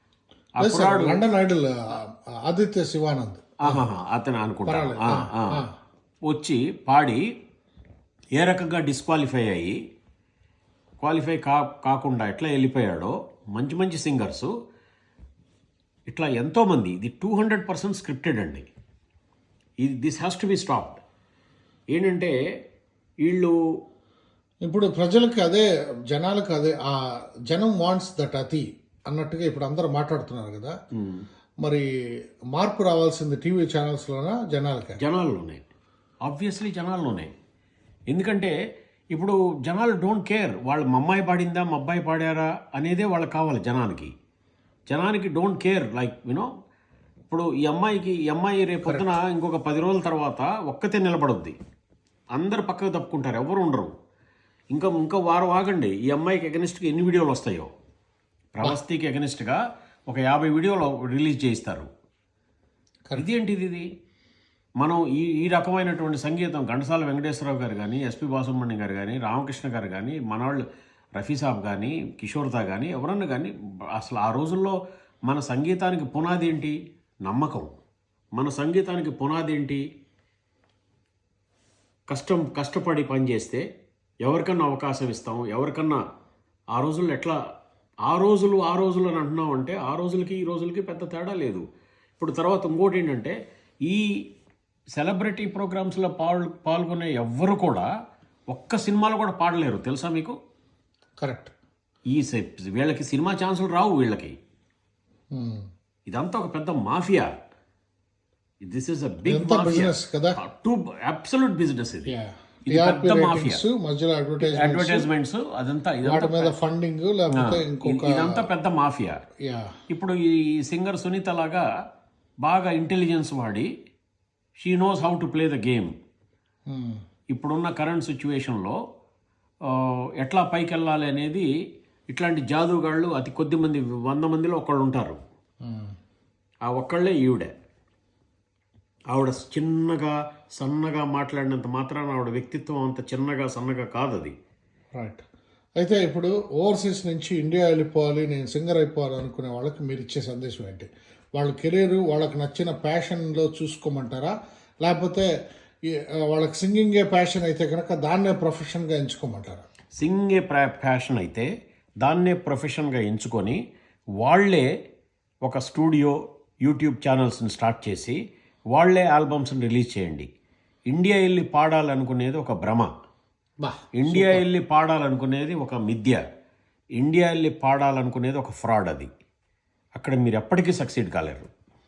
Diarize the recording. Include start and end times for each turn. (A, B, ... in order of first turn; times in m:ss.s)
0:00.6-0:01.2 A
0:00.6-0:03.8 B
0:03.7-0:05.6 A
0:04.7-0:05.7 B
0:06.3-0:07.2 A
0:08.4-0:09.8 A
0:11.0-0:14.5 A
0:16.1-0:18.6 A
0:19.8-0:21.0 A
0:21.9-0:22.3 A
0:23.2-0:23.5 A
0:24.6-0:26.9 B
0:27.5-0:30.7 B
0:31.0-0:31.2 A
0:32.5-0:35.0 B
0:35.0-0:35.6 A
0:36.3-0:37.3 A
0:38.1-0:38.5 A
0:39.1-0:44.1 A
0:44.9-0:46.5 A
0:47.3-0:51.6 A
0:52.4-0:53.9 A
0:54.7-0:57.7 A
0:58.6-1:01.9 A
1:03.2-1:03.8 A
1:04.8-1:10.6 A
1:11.2-1:14.8 A
1:15.3-1:16.8 A
1:17.3-1:17.7 A
1:18.4-1:19.8 A
1:22.1-1:23.6 A
1:24.2-1:26.0 A
1:26.8-1:27.4 A
1:28.1-1:31.6 A
1:32.2-1:34.1 A
1:35.0-1:37.9 A
1:38.5-1:40.4 A
1:41.2-1:41.5 B
1:42.1-1:44.3 A
1:45.3-1:45.6 B
1:46.1-1:47.3 A
1:48.6-1:52.1 A
1:49.2-1:50.4 B
1:52.1-1:55.1 B
1:52.7-1:53.6 A
1:54.4-1:56.5 A
1:56.0-1:58.5 B
1:57.4-1:59.2 A
1:59.4-1:59.7 B
1:59.9-2:01.6 A
2:02.4-2:03.7 A
2:04.6-2:05.9 A
2:06.7-2:07.0 B
2:07.3-2:08.8 A
2:09.7-2:11.5 A
2:12.1-2:15.2 A
2:15.7-2:15.9 B
2:16.7-2:17.5 A
2:19.1-2:24.3 A
2:24.9-2:25.2 B
2:25.8-2:35.3 B
2:35.9-2:39.6 B
2:40.0-2:41.5 A
2:42.0-2:43.6 A
2:44.2-2:44.7 A
2:45.4-2:48.2 A
2:48.7-2:50.3 A
2:50.9-2:52.9 A
2:53.6-2:54.4 B
2:54.0-2:56.2 A
2:57.0-2:59.1 A
3:00.0-3:01.5 A